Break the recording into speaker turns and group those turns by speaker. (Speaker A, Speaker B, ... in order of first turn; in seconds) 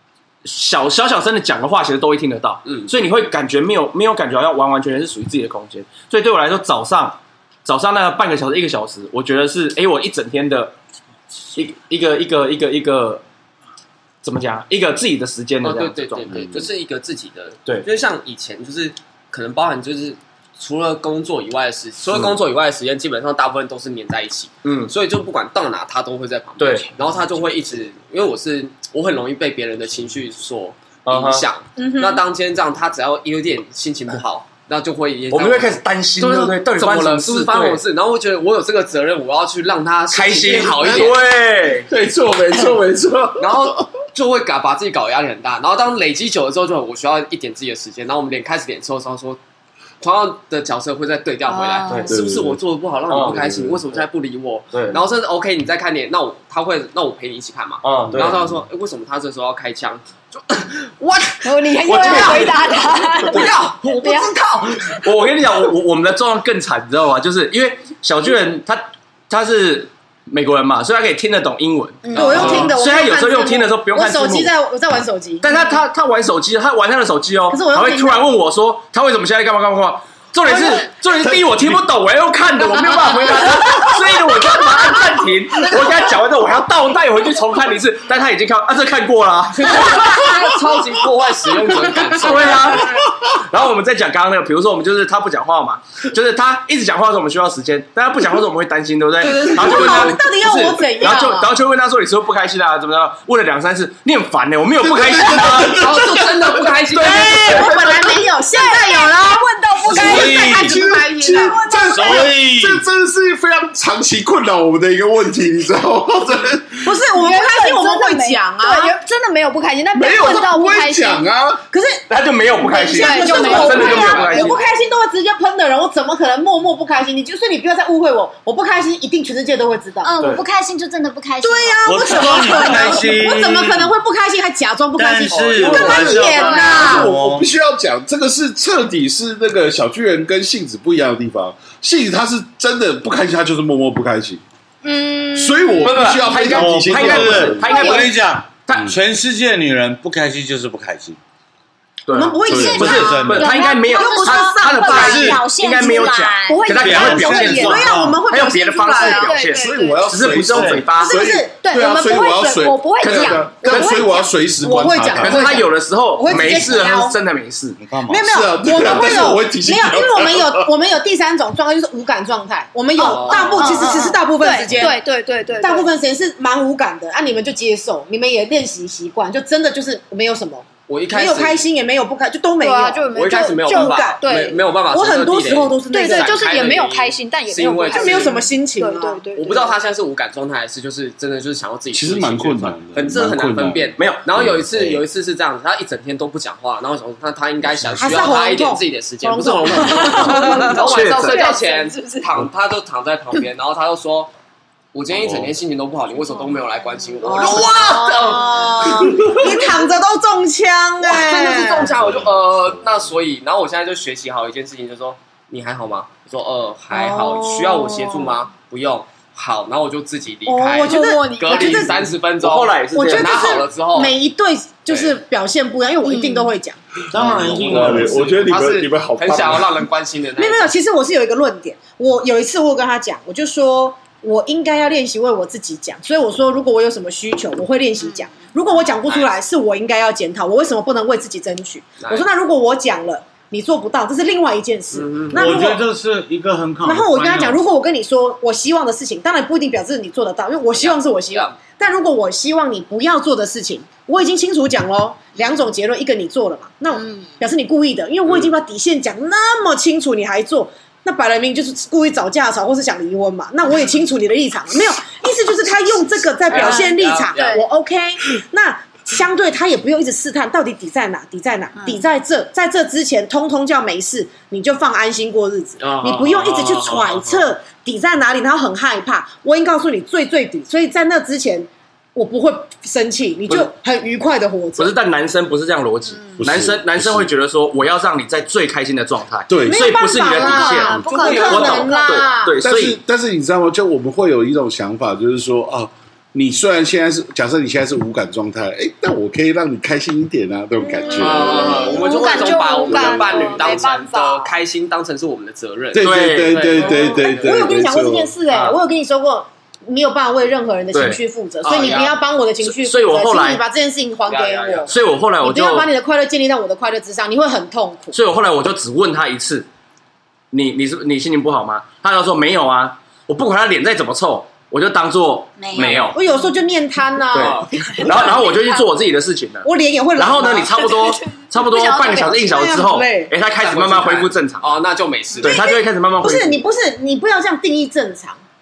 Speaker A: 0.4-10.7, 11.5-13.2, 14.2-16.7, 24.6-24.9, 26.6-26.9, 31.1-31.4, 35.3-37.8, 40.1-41.9, 53.1-53.8, 54.7-55.0, 57.8-58.4, 61.9-62.6, 65.0-74.5, 75.4-90.4, 91.9-106.1, 106.9-108.1, 122.1-124.6, 130.2-130.4, 145.8-148.9, 152.1-161.2, 163.0-164.0, 165.2-167.8, 194.0-194.3, 200.8-201.4, 222.4-223.6, 227.8-228.1, 284.8-293.0, 305.9-306.7, 308.5-308.8, 310.9-311.2, 312.6-313.6, 314.9-315.9, 318.1-319.7, 320.5-326.2, 327.3-334.7, 335.4-336.6
Speaker B: 2.6-2.9, 15.6-41.2, 43.4-49.4, 50.0-61.4, 62.0-62.3, 72.2-72.7, 89.7-92.8, 99.2-100.2, 105.6-107.5, 135.3-135.7, 173.0-174.0, 180.9-181.6, 183.1-188.3, 189.4-204.3, 204.9-209.3, 211.1-224.1, 224.9-225.2, 227.1-230.7, 238.7-239.3, 242.0-242.3, 244.9-245.6, 250.7-251.6, 258.2-258.5, 266.5-267.6, 275.8-277.5, 291.1-291.9, 301.1-307.7, 311.6-312.2, 314.2-315.0, 325.8-326.0, 327.3-327.7, 333.5-335.7
Speaker C: 16.3-16.6, 40.7-41.1, 41.9-43.8, 52.1-52.6, 53.2-53.7, 58.1-58.6, 81.1-81.8, 82.8-84.0, 104.8-106.7, 109.9-116.9, 119.9-121.6, 135.6-144.4, 145.3-147.8, 152.5-152.9, 159.5-165.6, 168.2-170.7, 191.9-195.0, 197.6-198.2, 205.1-205.5, 211.8-213.1, 227.5-229.8, 286.4-287.3, 289.5-289.9, 292.6-301.7, 305.9-308.3
Speaker D: 31.8-32.2, 51.4-52.2, 61.4-64.4, 72.1-72.4, 107.6-112.3, 117.0-121.2, 122.9-124.7, 144.8-146.0, 147.6-148.1, 156.5-157.9, 158.9-160.2, 161.6-164.3, 173.0-175.9, 182.6-184.7, 185.9-189.8, 199.7-202.3, 207.2-208.7, 220.8-221.9, 226.0-226.5, 257.0-257.3, 266.5-267.6, 271.8-272.0, 290.3-292.5, 301.0-304.5, 327.9-328.9, 330.6-332.5
Speaker E: 61.9-62.5, 63.3-64.8, 72.0-75.7, 77.5-78.3, 99.3-101.5, 107.0-111.8, 116.8-118.9, 121.7-122.0, 122.5-130.1, 131.4-137.1, 152.1-155.4, 157.2-159.4, 161.0-161.5, 163.6-167.2, 168.1-175.0, 175.6-184.2, 184.9-186.4, 187.9-189.2, 198.0-200.8, 207.3-211.9, 216.9-218.0, 220.5-222.1, 222.9-226.8, 230.4-245.8, 246.8-284.9, 289.6-292.5, 300.9-303.7, 306.8-318.1, 326.1-328.5, 329.6-330.9, 332.0-333.3, 335.4-338.4
Speaker F: 109.9-110.8, 111.9-112.8, 131.8-133.9, 134.9-137.5, 146.5-151.2, 152.5-153.5, 154.9-155.4, 156.8-158.2, 160.4-160.8, 167.8-168.3, 227.1-228.2, 245.3-247.6
Speaker G: 130.0-133.1, 152.5-156.7, 325.6-326.1